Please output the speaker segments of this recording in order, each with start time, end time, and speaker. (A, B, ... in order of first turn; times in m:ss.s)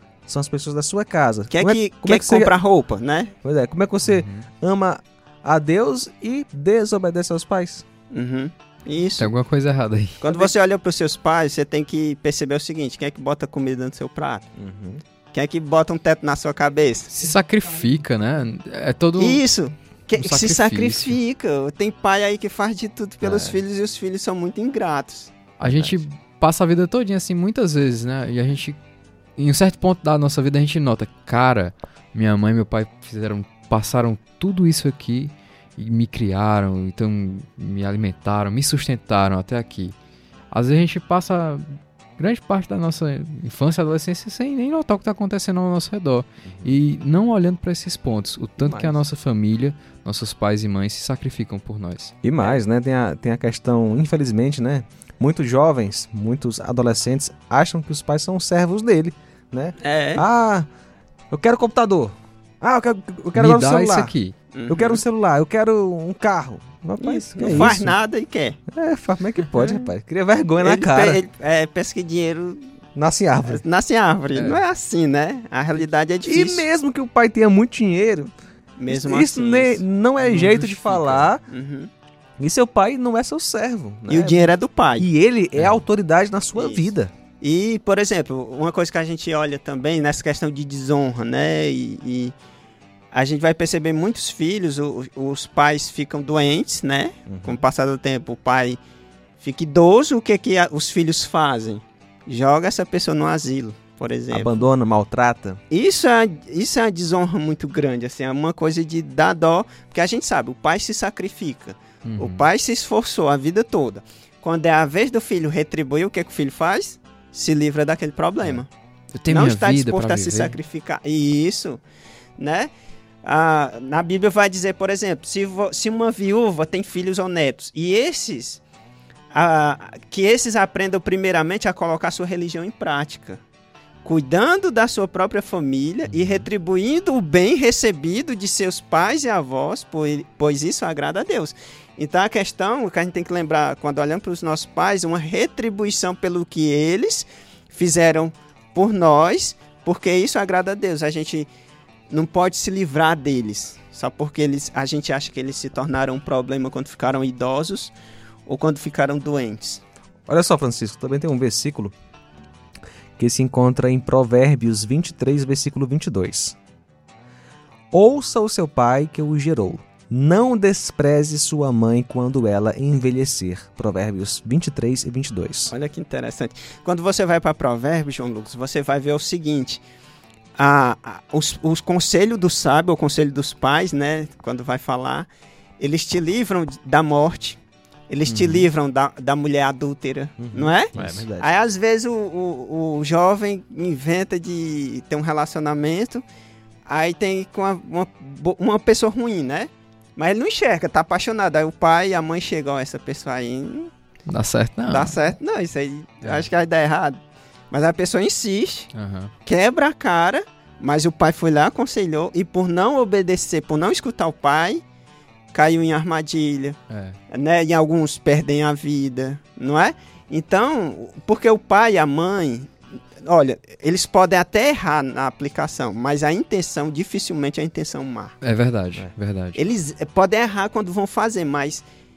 0:00.3-0:02.5 A
0:01.5-0:03.3 B
0:03.4-0:07.8 A
0:04.0-0:04.4 C
0:08.1-0:09.3 B
0:09.2-0:10.5 C
0:10.2-0:14.4 B
0:14.6-0:15.0 A
0:15.3-0:17.1 B
0:17.1-0:19.4 C
0:19.2-0:25.3 B
0:20.1-0:21.2 C
0:23.2-0:23.6 A
0:25.6-0:28.8 C
0:25.6-0:26.0 A
0:29.4-0:39.9 C
0:40.5-0:52.1 C
0:46.4-0:46.8 A
0:48.6-0:49.0 A
0:52.2-1:00.7 A
0:59.8-1:00.2 B
1:01.3-1:04.1 A
1:03.4-1:04.3 C
1:04.5-1:05.0 B
1:04.7-1:07.9 A
1:07.0-1:08.6 B
1:07.4-1:07.7 C
1:08.7-1:11.2 A
1:10.6-1:12.6 B
1:13.0-1:13.6 A
1:13.4-1:16.6 B
1:14.3-1:14.6 C
1:16.2-1:18.3 A
1:18.8-1:19.8 B
1:18.9-1:21.4 A
1:20.2-1:21.3 C
1:21.5-1:21.9 B
1:22.4-1:27.1 A
1:24.1-1:25.1 B
1:25.6-1:25.8 C
1:26.5-1:32.3 B
1:33.1-1:38.8 B
1:37.3-1:37.6 A
1:39.4-1:44.6 B
1:44.3-1:45.6 A
1:45.7-1:58.7 B
1:52.0-1:52.4 C
1:59.1-2:00.6 C
1:59.3-2:01.8 B
2:02.4-2:02.7 B
2:03.2-2:08.6 B
2:09.3-2:13.4 B
2:14.0-2:31.5 B
2:16.1-2:16.4 C
2:32.1-2:37.9 B
2:38.4-2:39.8 B
2:40.3-2:41.9 A
2:43.2-2:46.6 A
2:47.9-2:55.7 A
2:55.7-2:59.8 B
3:00.6-3:16.2 B
3:08.3-3:08.7 C
3:10.4-3:11.5 A
3:16.8-3:23.9 B
3:24.3-3:25.1 C
3:24.9-3:28.9 B
3:26.2-3:26.5 C
3:28.9-3:29.3 C
3:29.4-3:34.8 B
3:35.5-3:36.8 B
3:36.9-3:37.2 C
3:37.3-3:42.7 B
3:43.2-3:48.3 B
3:48.4-3:49.6 C
3:49.5-3:51.8 B